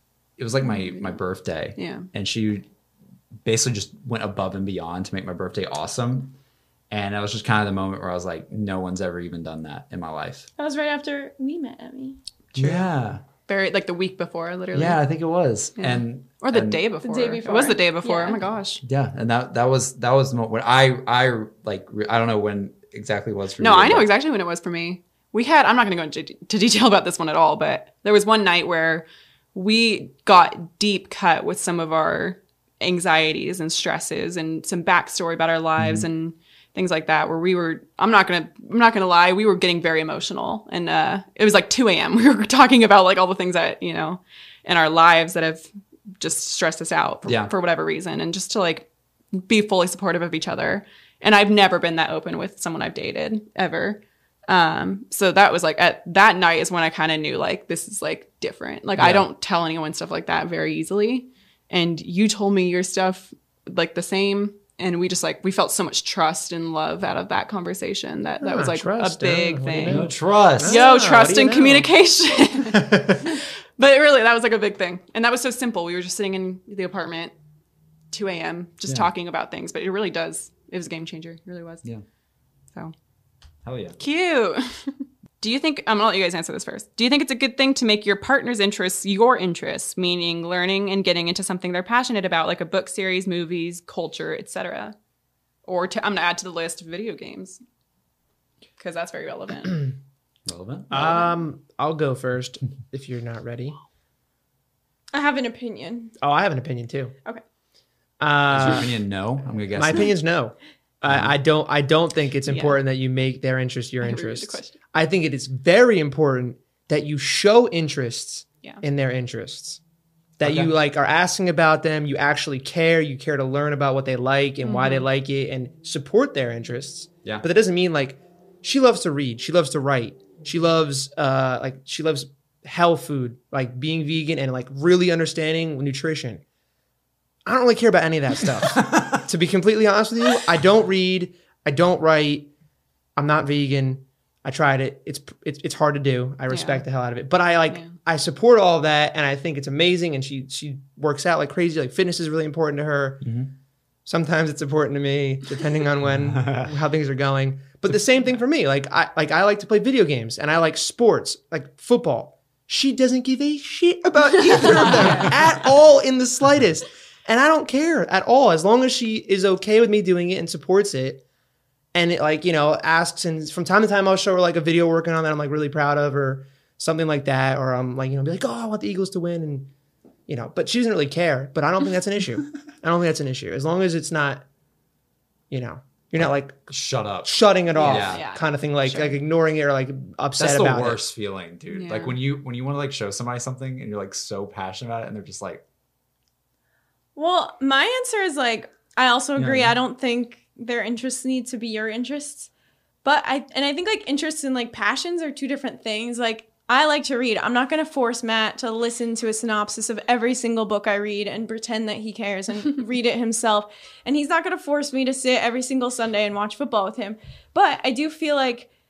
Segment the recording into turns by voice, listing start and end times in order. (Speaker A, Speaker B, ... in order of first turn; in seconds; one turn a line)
Speaker A: 0.4-2.6
Speaker B: 0.7-1.2
Speaker B: 1.8-2.1
Speaker A: 3.4-6.3
Speaker A: 6.9-10.5
Speaker C: 10.6-12.2
Speaker A: 12.5-13.2
Speaker B: 13.5-15.0
Speaker A: 14.7-16.8
Speaker B: 15.8-18.8
Speaker C: 17.0-18.4
Speaker A: 18.8-24.1
Speaker B: 23.6-45.6
Speaker A: 35.8-36.1
Speaker B: 46.2-70.1
Speaker A: 47.2-47.5
Speaker A: 59.0-59.3
Speaker D: 68.4-71.9
Speaker A: 69.8-70.8
Speaker B: 70.6-77.3
Speaker D: 72.7-73.4
Speaker B: 78.1-81.8
Speaker A: 83.6-84.0
Speaker B: 84.0-94.9
Speaker B: 95.6-97.6
Speaker B: 98.8-99.9
Speaker A: 100.5-101.2
Speaker D: 100.9-103.8
Speaker C: 105.1-106.1
Speaker D: 106.2-107.1
Speaker D: 108.2-109.0
Speaker A: 108.5-110.1
Speaker D: 109.7-119.8
Speaker A: 111.0-111.3
Speaker B: 112.5-112.8
Speaker B: 114.0-114.7
Speaker D: 120.4-136.4
Speaker A: 120.4-120.7
Speaker B: 124.6-125.0
Speaker D: 137.4-142.5
Speaker A: 138.7-139.1
Speaker D: 143.2-153.3
Speaker B: 146.5-146.8
Speaker A: 153.2-153.5
Speaker D: 154.1-171.2
Speaker A: 156.1-156.7
Speaker B: 164.5-165.3
Speaker D: 171.9-179.7
Speaker D: 180.3-184.4
Speaker D: 185.5-186.7
Speaker A: 186.2-188.2
Speaker D: 187.2-191.0
Speaker B: 187.7-189.2
Speaker A: 190.4-195.6
Speaker B: 191.7-192.2
Speaker C: 197.2-202.5
Speaker A: 199.3-199.7
Speaker C: 203.0-218.7